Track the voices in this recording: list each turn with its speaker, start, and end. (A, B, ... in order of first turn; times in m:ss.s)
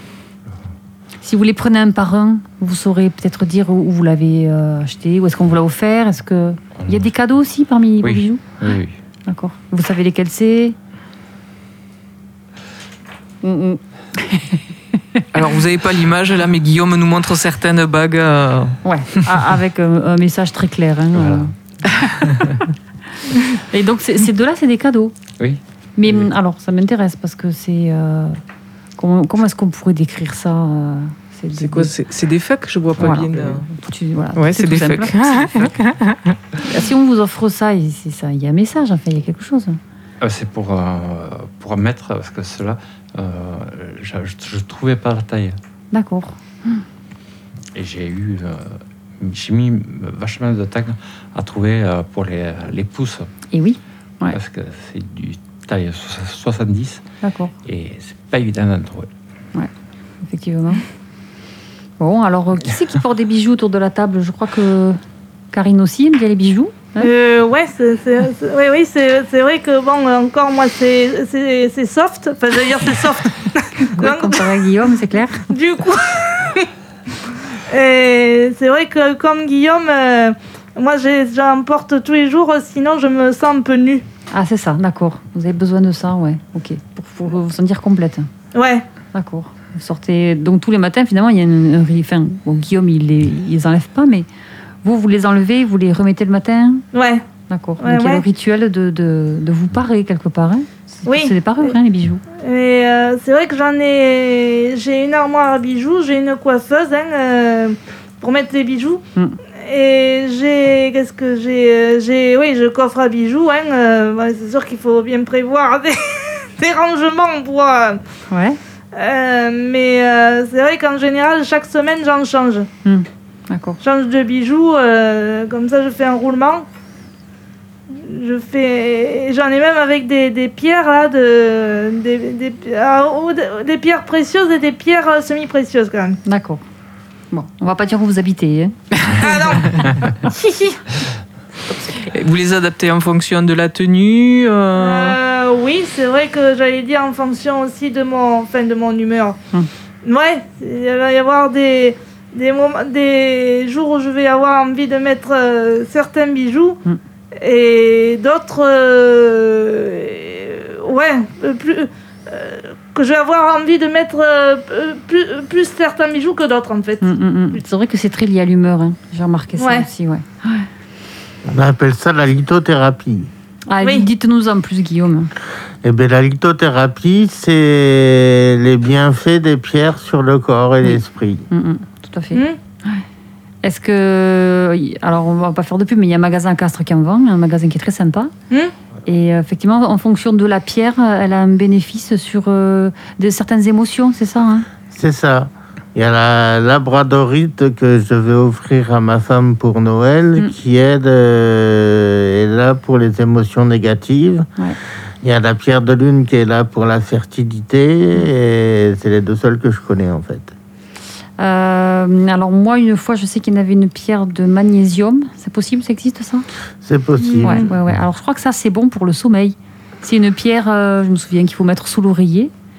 0:01.2-0:08.5 A
0:06.8-0:07.1 B
0:08.0-0:09.0 B
0:09.3-0:10.8 A
0:13.4-0:15.3 A
0:15.3-0:19.2 C
0:18.8-0:22.6 A
0:21.1-0:21.5 B
0:23.4-0:25.2 A
0:25.4-0:26.3 B
0:26.0-0:28.4 A
0:29.0-0:31.9 A
0:31.6-0:33.7 C
0:33.0-0:35.8 A
0:34.4-0:36.4 C
0:36.6-0:39.8 A
0:40.2-0:45.6 B
0:45.9-0:46.8 A
0:47.8-0:53.3 B
0:53.5-0:54.4 A
0:54.3-0:57.0 B
0:57.2-0:57.5 A
0:57.7-0:59.1 B
1:00.3-1:00.8 A
1:02.0-1:05.0 A
1:05.5-1:07.1 A
1:07.0-1:14.7 D
1:13.8-1:15.5 A
1:15.5-1:16.7 D
1:17.7-1:24.0 D
1:24.3-1:28.3 A
1:28.6-1:28.9 D
1:29.1-1:34.3 A
1:34.8-1:36.9 A
1:36.9-1:37.2 D
1:37.5-1:42.2 A
1:37.8-1:38.2 D
1:41.0-1:41.4 D
1:42.4-1:49.0 D
1:49.6-1:58.0 D
1:58.3-1:58.6 A
1:58.9-2:02.7 D
2:02.8-2:03.8 A
2:03.8-2:06.7 D
2:07.9-2:16.2 D
2:16.2-2:16.6 A
2:17.3-2:19.1 A
2:19.2-2:20.8 D
2:21.9-2:25.2 C
2:24.8-2:29.4 D
2:30.0-2:36.8 D
2:37.4-2:47.1 D
2:47.0-2:50.6 A
2:49.6-2:49.9 D
2:51.5-2:53.3 E
2:53.7-2:55.3 A
2:53.8-2:54.1 D
2:55.8-3:01.5 E
3:00.8-3:03.0 A
3:03.6-3:08.3 A
3:09.1-3:14.7 A
3:14.9-3:24.5 E
3:25.2-3:30.5 E
3:31.4-3:36.5 A
3:36.8-3:37.7 E
3:37.3-3:37.7 D
3:37.4-3:42.5 A